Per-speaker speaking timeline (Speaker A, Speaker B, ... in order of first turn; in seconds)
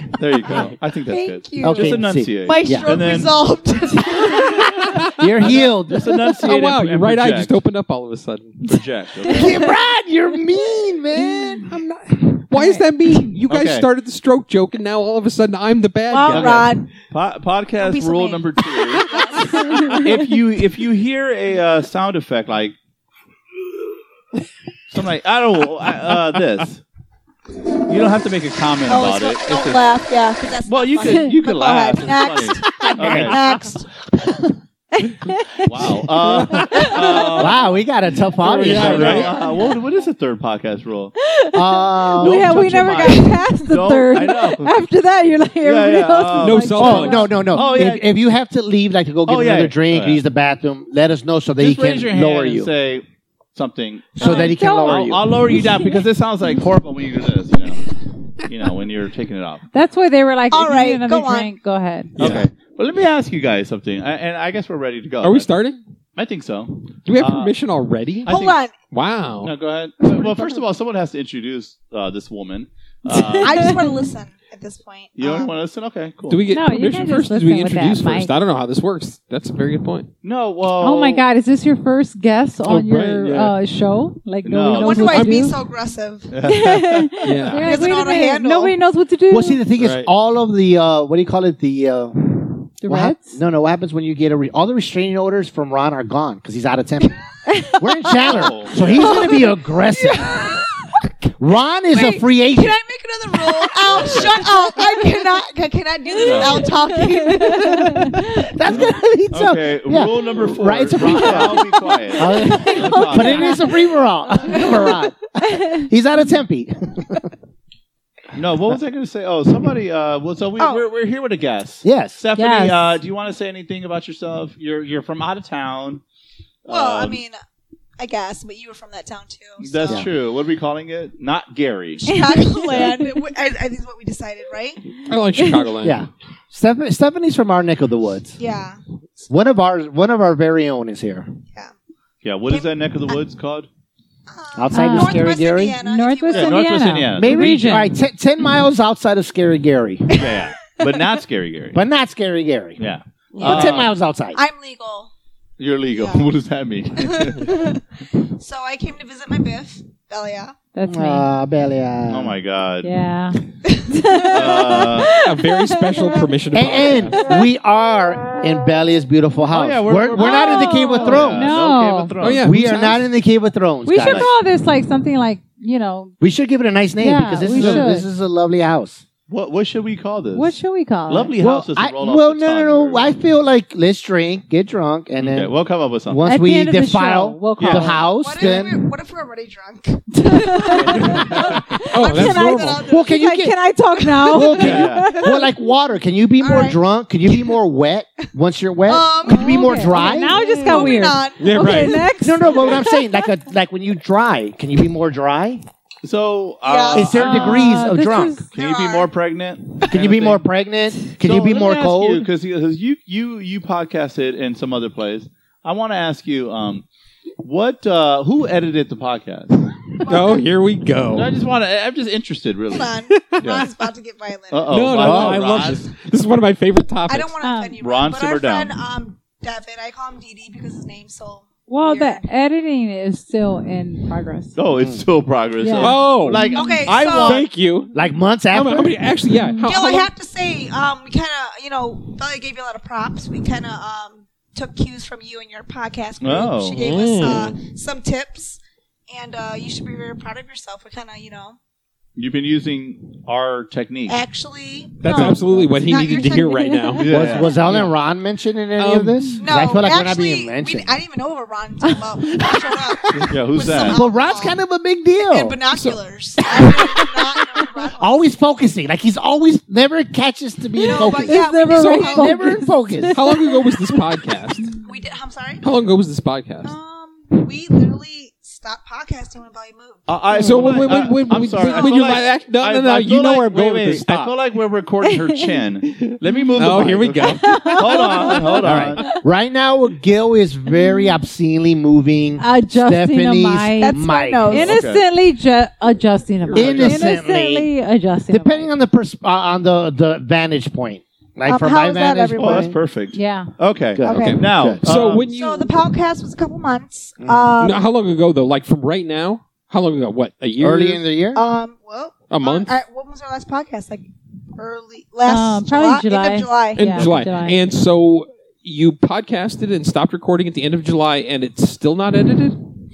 Speaker A: 0.1-3.4, 5.4-7.6, 8.6-9.6, 13.5-13.9, 16.3-19.1, 19.9-22.8, 24.9-26.8, 27.9-29.9, 30.6-33.4, 35.6-37.8, 38.4-41.1, 42.2-44.7, 45.6-46.9, 47.5-48.1, 49.3-50.2, 51.6-57.9, 58.4-59.6, 62.2-65.5, 66.2-67.5, 68.3-68.6, 69.4-73.8, 75.2-76.4, 80.2-81.2, 84.4-85.2, 86.3-87.5, 98.2-99.4, 103.9-104.4, 106.2-106.7, 108.7-113.7, 118.3-126.0, 126.7-127.2, 129.6-132.1, 142.2-143.7, 146.3-147.5, 150.1-151.8, 152.8-153.9, 155.6-157.5, 162.1-162.9, 164.2-165.1, 169.5-172.5, 174.0-174.3, 177.6-177.8, 179.3-183.1, 185.2-186.2, 187.6-187.9, 190.9-191.3, 194.6-195.2, 202.5-202.8, 206.0-207.8, 208.5-210.4, 211.1-216.8, 217.4-219.7, 221.1-223.7, 224.5-225.9, 227.8-228.7, 234.6-237.5, 246.2-247.0, 252.2-254.2, 257.0-257.9, 263.2-264.0, 280.1-289.0, 294.5-295.0, 302.4-305.2
Speaker B: 1.1-5.0, 16.1-16.9, 17.8-20.2, 28.9-33.9, 60.5-61.5, 68.3-68.8, 73.4-75.5, 84.8-86.3, 87.6-88.8, 99.0-101.1, 101.9-108.1, 120.6-120.8, 126.7-127.3, 128.0-130.1, 132.0-134.9, 138.4-138.8, 142.5-143.2, 144.3-146.7, 153.4-155.1, 155.9-156.3, 157.0-160.6, 163.7-164.0, 188.1-193.4, 194.0-194.7, 196.4-196.8, 197.3-197.6, 198.9-203.1, 206.7-207.1, 208.6-209.1, 220.1-220.5, 222.7-224.7, 227.1-232.3, 236.5-237.5, 239.6-251.6, 254.1-256.9, 259.4-264.6, 265.3-268.3, 270.8-272.6, 274.8-275.7, 276.6-280.1, 281.6-282.3, 293.8-294.8, 301.5-302.7, 304.0-304.4, 305.2-307.9, 311.3-317.1
Speaker C: 1.6-3.0, 5.1-6.5, 9.3-11.7, 33.0-33.4, 37.0-39.4, 41.5-42.6, 46.8-52.7, 54.2-55.3, 89.3-97.2, 97.7-100.3, 101.4-102.8, 107.6-117.3, 121.8-122.2, 135.8-138.4, 139.3-141.3, 144.6-145.8, 147.1-150.3, 151.7-152.8, 153.4-154.4, 160.9-162.4, 166.5-171.6, 172.4-174.3, 176.2-179.0, 181.4-185.5, 186.1-188.9, 192.8-193.6, 194.3-201.0, 202.2-205.6, 206.9-208.5, 209.9-212.3, 225.0-225.4, 234.8-235.1, 237.9-239.0, 255.2-255.7, 257.1-260.9, 263.8-265.6, 268.0-271.5, 272.1-273.2, 288.6-294.7, 296.5-297.7, 298.3-302.8, 304.0-304.8, 307.2-307.5, 310.6-311.4
Speaker D: 4.8-5.3, 6.4-8.8, 11.4-16.8, 38.5-39.4, 46.4-47.5, 62.2-62.5, 65.2-65.8, 67.1-69.5, 76.3-80.1, 82.7-83.6, 85.1-85.4, 87.2-87.9, 89.8-90.1, 135.0-136.0, 165.1-167.3, 172.2-173.1, 191.1-192.8, 201.4-202.1, 220.0-221.3, 223.1-223.6, 224.7-227.3, 235.7-237.9, 238.5-240.1, 246.8-247.6, 255.0-257.9, 258.8-259.4, 265.7-267.6, 271.7-272.4, 273.1-274.8, 275.6-276.8, 280.4-284.4, 285.9-289.1, 296.4-297.0, 304.1-305.8, 307.6-311.0, 312.3-312.8, 316.8-322.7
Speaker E: 12.5-12.8, 16.1-16.4, 19.6-20.0, 35.0-35.7, 36.5-37.4, 41.2-47.4, 54.2-56.0, 59.7-62.2, 73.1-74.0, 76.5-78.3, 80.8-85.6, 86.4-89.6, 92.8-93.4, 97.5-98.2, 106.3-108.3, 112.2-113.8, 114.5-114.9, 115.5-115.8, 122.4-123.0, 132.1-133.1, 144.7-145.3, 145.8-147.9, 160.7-161.3, 162.8-166.3, 170.2-172.1, 173.9-176.2, 177.0-178.1, 180.3-181.3, 186.2-188.0, 190.2-195.5, 199.3-202.5, 207.1-208.5, 227.4-227.8, 231.7-234.6, 235.6-236.0, 239.3-239.7, 255.1-255.4, 256.0-257.0, 270.8-274.7, 285.1-285.4, 287.2-289.2, 290.7-291.1, 292.4-298.7, 303.1-303.5, 315.2-317.6